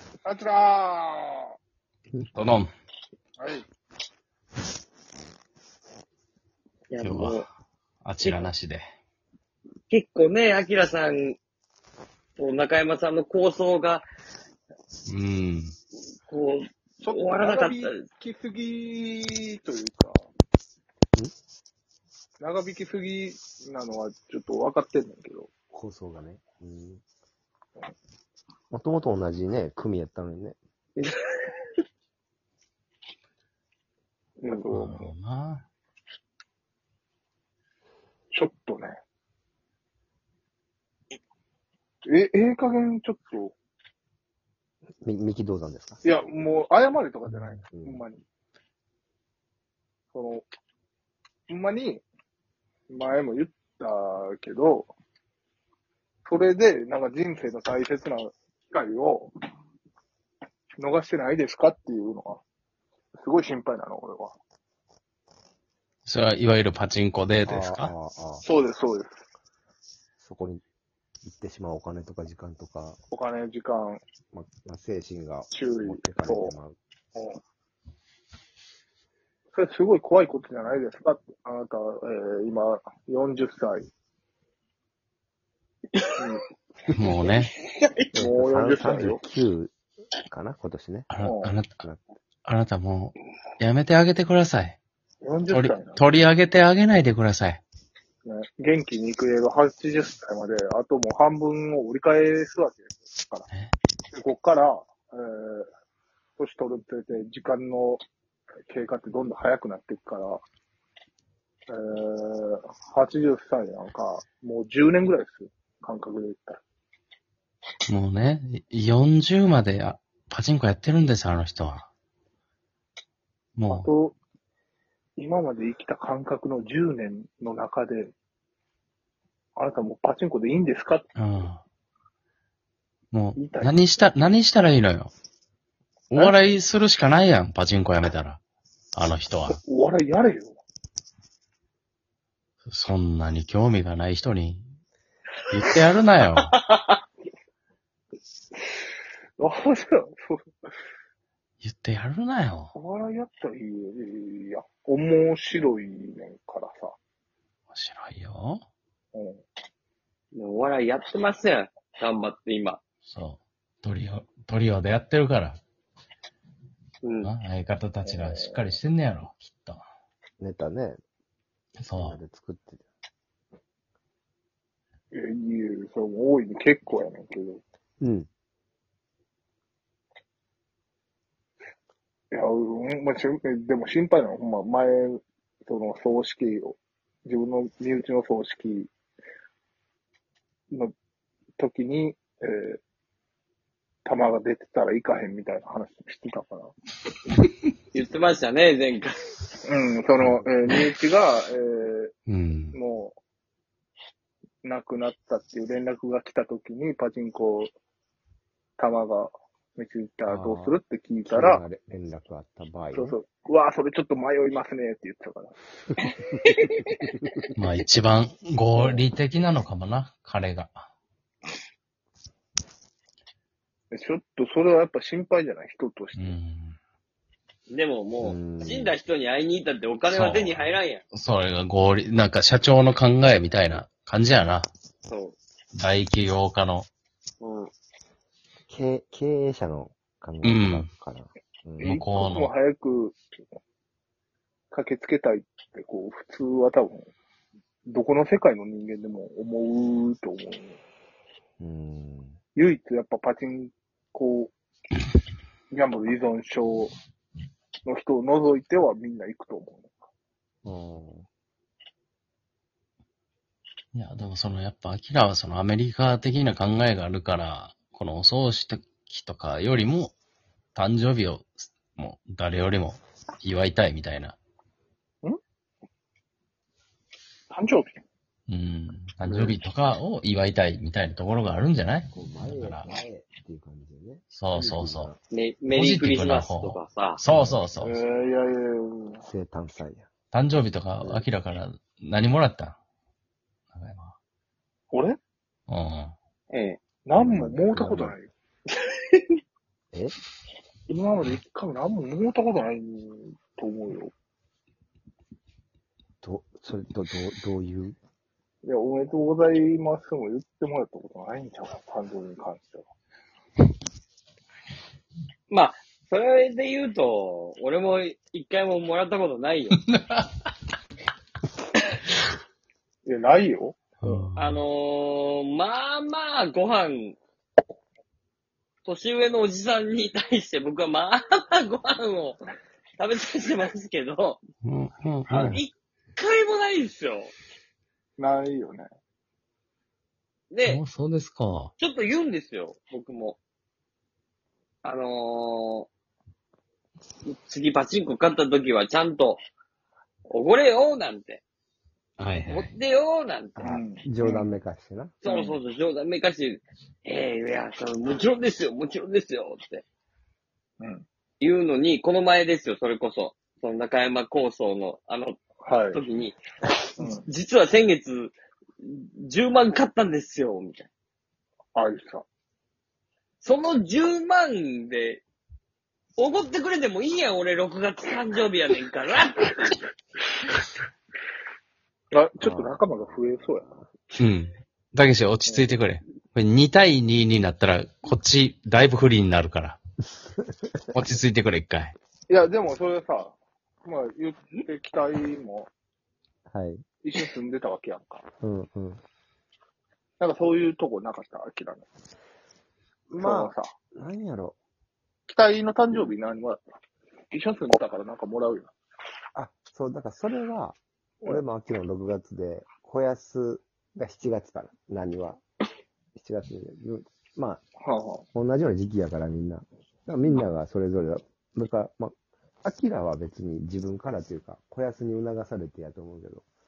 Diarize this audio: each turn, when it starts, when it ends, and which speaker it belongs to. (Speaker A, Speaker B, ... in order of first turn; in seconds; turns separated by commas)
Speaker A: 0.2-1.5, Speaker B: 2.4-2.7, Speaker A: 3.4-3.6, Speaker C: 6.9-7.5, Speaker B: 7.0-7.5, Speaker B: 8.0-8.9, Speaker C: 8.2-8.5, Speaker C: 9.9-11.4, Speaker C: 12.4-14.1, Speaker B: 15.1-15.7, Speaker C: 16.3-18.0, Speaker A: 17.0-20.2, Speaker A: 22.4-25.5, Speaker D: 25.7-27.0, Speaker D: 28.7-30.6, Speaker A: 34.4-35.1, Speaker B: 34.7-35.7, Speaker A: 38.3-39.0, Speaker A: 42.0-43.5, Speaker D: 45.0-46.0, Speaker A: 46.0-48.2, Speaker D: 47.3-48.0, Speaker A: 50.1-50.5, Speaker A: 51.5-52.0, Speaker A: 52.9-54.9, Speaker A: 56.2-59.3, Speaker A: 60.8-62.4, Speaker A: 63.2-64.4, Speaker B: 66.1-67.9, Speaker D: 67.4-68.4, Speaker A: 68.4-69.2, Speaker D: 70.2-70.6, Speaker D: 71.2-73.0, Speaker A: 73.1-74.0, Speaker D: 74.3-76.8, Speaker A: 75.5-76.5, Speaker A: 77.2-77.4, Speaker A: 79.5-83.9, Speaker B: 86.9-87.5, Speaker C: 87.2-88.0, Speaker D: 88.1-89.8, Speaker A: 88.2-89.2, Speaker D: 90.3-91.1, Speaker B: 91.1-91.8, Speaker A: 91.2-91.6, Speaker D: 91.8-92.0, Speaker B: 92.5-94.8, Speaker A: 95.2-96.1, Speaker B: 95.5-97.6, Speaker A: 98.2-103.5, Speaker A: 104.1-105.7, Speaker A: 106.4-108.0, Speaker A: 108.7-110.4, Speaker A: 111.7-116.6, Speaker B: 117.9-121.9, Speaker B: 123.6-123.9, Speaker A: 123.7-124.2, Speaker A: 125.2-128.1, Speaker A: 129.6-131.3, Speaker B: 131.2-131.6, Speaker B: 133.1-135.1, Speaker A: 133.4-133.8, Speaker B: 136.1-138.4, Speaker A: 136.2-136.6, Speaker B: 138.9-139.6, Speaker A: 139.6-140.6, Speaker B: 142.7-144.7, Speaker B: 145.5-146.6, Speaker A: 149.4-150.5, Speaker B: 151.6-152.7, Speaker A: 152.8-156.9, Speaker B: 157.7-158.6, Speaker A: 159.1-159.4, Speaker C: 160.3-162.8, Speaker B: 163.1-165.6, Speaker C: 167.0-167.3, Speaker B: 167.2-169.8, Speaker A: 168.1-168.8, Speaker D: 170.4-171.0, Speaker B: 171.8-172.2, Speaker D: 171.9-172.8, Speaker A: 175.1-177.6, Speaker D: 178.0-178.3, Speaker A: 182.3-188.9, Speaker A: 191.6-192.8, Speaker A: 194.1-196.7, Speaker C: 197.9-199.3, Speaker A: 199.7-202.1, Speaker B: 202.3-202.8, Speaker A: 202.7-203.2, Speaker A: 204.6-207.7, Speaker A: 208.8-211.6, Speaker D: 210.3-213.1, Speaker A: 212.9-215.6, Speaker C: 216.5-216.7, Speaker B: 217.6-220.9, Speaker A: 223.9-226.4, Speaker B: 226.2-226.8, Speaker C: 227.7-231.0, Speaker D: 228.2-229.0, Speaker B: 230.1-234.7, Speaker C: 235.1-235.4, Speaker B: 235.7-236.9, Speaker C: 237.4-237.7, Speaker D: 238.7-241.9, Speaker B: 240.4-240.9, Speaker A: 241.8-243.2, Speaker B: 241.8-242.5, Speaker A: 244.7-247.1, Speaker A: 247.9-250.8, Speaker D: 251.6-252.4, Speaker A: 252.6-254.5, Speaker A: 255.7-256.9, Speaker A: 257.9-259.9, Speaker D: 260.6-261.3, Speaker B: 263.9-270.1, Speaker B: 270.8-274.4, Speaker A: 277.5-278.0, Speaker B: 278.5-283.0, Speaker A: 279.3-279.6, Speaker D: 282.1-285.2, Speaker B: 284.3-285.1, Speaker C: 285.3-287.2, Speaker B: 285.7-287.9, Speaker D: 287.3-287.6, Speaker A: 287.8-289.2, Speaker D: 289.2-290.1, Speaker B: 290.3-292.8, Speaker B: 293.7-294.1, Speaker A: 294.9-295.2, Speaker B: 295.7-296.1, Speaker C: 296.5-296.8, Speaker A: 297.1-298.3, Speaker D: 297.2-298.2, Speaker A: 300.9-304.1, Speaker D: 306.2-308.0, Speaker A: 308.6-312.9, Speaker C: 315.5-319.8, Speaker B: 319.9-320.3, Speaker A: 323.1-324.3, Speaker B: 324.0-324.6, Speaker C: 324.4-327.2, Speaker C: 328.9-332.4, Speaker C: 333.0-334.4, Speaker B: 334.6-335.6, Speaker A: 335.3-335.6, Speaker C: 335.3-337.3, Speaker A: 338.2-338.9, Speaker C: 340.5-340.8, Speaker B: 340.6-341.7, Speaker C: 341.8-343.4, Speaker C: 344.8-345.9, Speaker C: 347.3-349.4, Speaker C: 350.3-351.4, Speaker B: 352.2-352.7, Speaker C: 352.5-353.8, Speaker D: 353.6-355.2, Speaker A: 353.6-354.6, Speaker C: 355.2-359.8, Speaker A: 355.2-355.6, Speaker C: 361.4-365.4, Speaker A: 365.6-366.0, Speaker C: 365.9-366.4, Speaker A: 367.0-367.3, Speaker C: 367.0-370.9, Speaker A: 371.8-372.2, Speaker C: 373.4-375.2, Speaker C: 376.2-379.8, Speaker A: 382.1-383.8, Speaker D: 382.4-382.7, Speaker B: 384.2-389.8, Speaker A: 385.5-385.8, Speaker D: 390.3-391.0, Speaker B: 390.9-392.0, Speaker A: 392.3-395.7, Speaker D: 396.5-396.8, Speaker A: 397.0-398.2, Speaker D: 398.4-399.0, Speaker A: 400.2-401.9, Speaker D: 403.1-404.6, Speaker A: 403.2-403.7, Speaker A: 405.3-406.6, Speaker A: 407.3-408.7, Speaker D: 409.4-415.4, Speaker D: 416.2-417.6, Speaker A: 417.8-418.2, Speaker D: 418.3-426.5